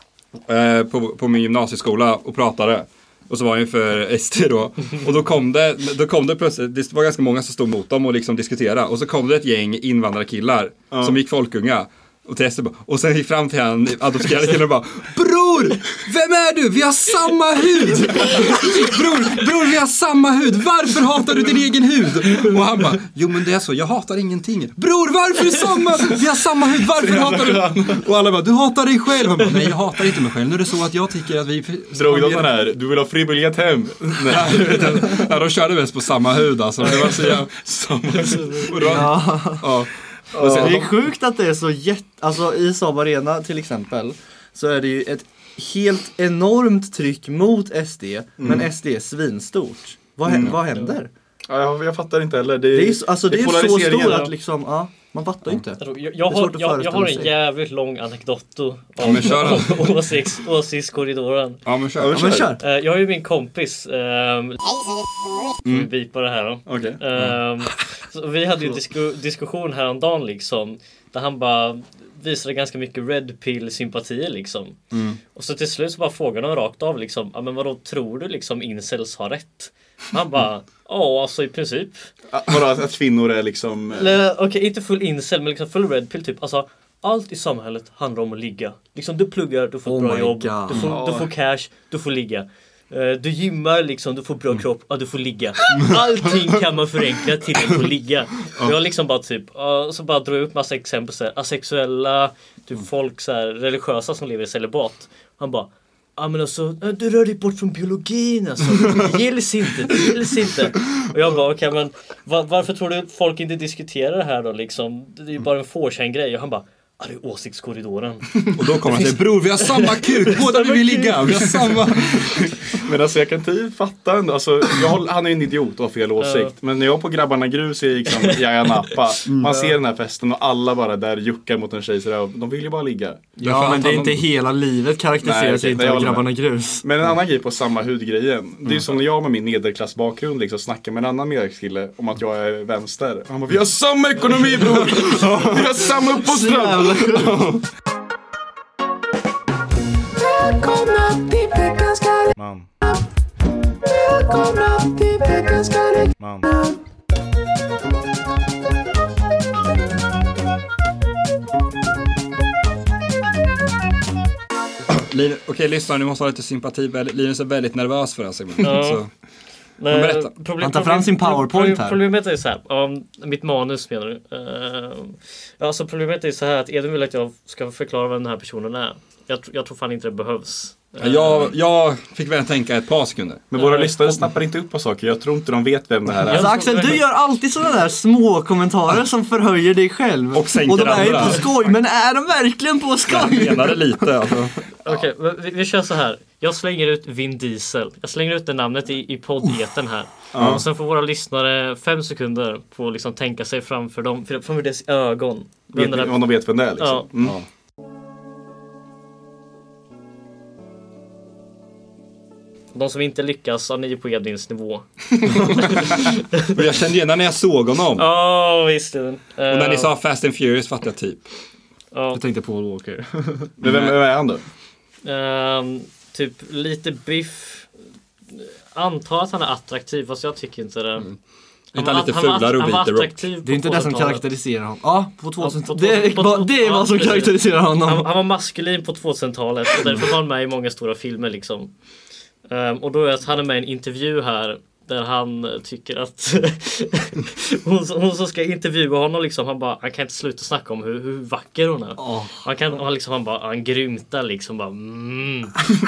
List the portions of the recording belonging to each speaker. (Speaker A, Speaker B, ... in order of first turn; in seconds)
Speaker A: 0.5-32.5, 34.2-37.5, 38.1-40.9, 50.3-50.6, 59.0-59.9, 61.7-62.5, 65.6-65.9, 67.1-67.4, 74.9-75.2, 118.5-122.8, 129.3-129.6, 133.4-134.2, 144.6-145.7, 165.0-169.1, 169.9-170.4, 181.0-183.5, 190.3-191.8, 193.1-194.5, 215.5-216.0, 216.5-218.1, 219.5-221.2, 223.6-224.0, 231.7-233.3
Speaker B: 10.9-11.2, 27.0-28.0, 31.9-35.2, 36.8-39.1, 40.4-40.9, 48.4-48.6, 50.3-50.5, 51.5-54.3, 62.1-62.5, 66.7-67.0, 82.3-84.2, 90.8-91.3, 122.8-133.3, 135.2-136.3, 136.8-147.4, 152.4-152.7, 156.2-156.5, 183.5-186.5, 200.3-200.6, 205.7-207.4, 223.6-224.4
Speaker C: 38.2-38.6, 55.8-61.6, 62.6-64.6, 65.7-74.8, 75.3-82.0, 84.0-121.5, 126.2-126.5, 168.6-169.0, 169.8-181.5, 183.6-184.1, 186.3-187.1, 194.8-207.1, 212.7-214.8, 215.4-216.6, 218.0-219.9, 221.9-222.2, 225.0-227.7, 228.3-231.1, 231.8-234.3, 235.4-241.7, 242.5-255.5
Speaker D: 38.8-39.8, 40.4-51.1, 52.7-57.3, 62.0-62.6, 89.8-91.0, 133.4-136.9, 146.2-147.5, 155.2-155.8, 170.6-172.0, 186.3-194.5, 222.1-223.5, 233.4-238.1, 252.0-252.4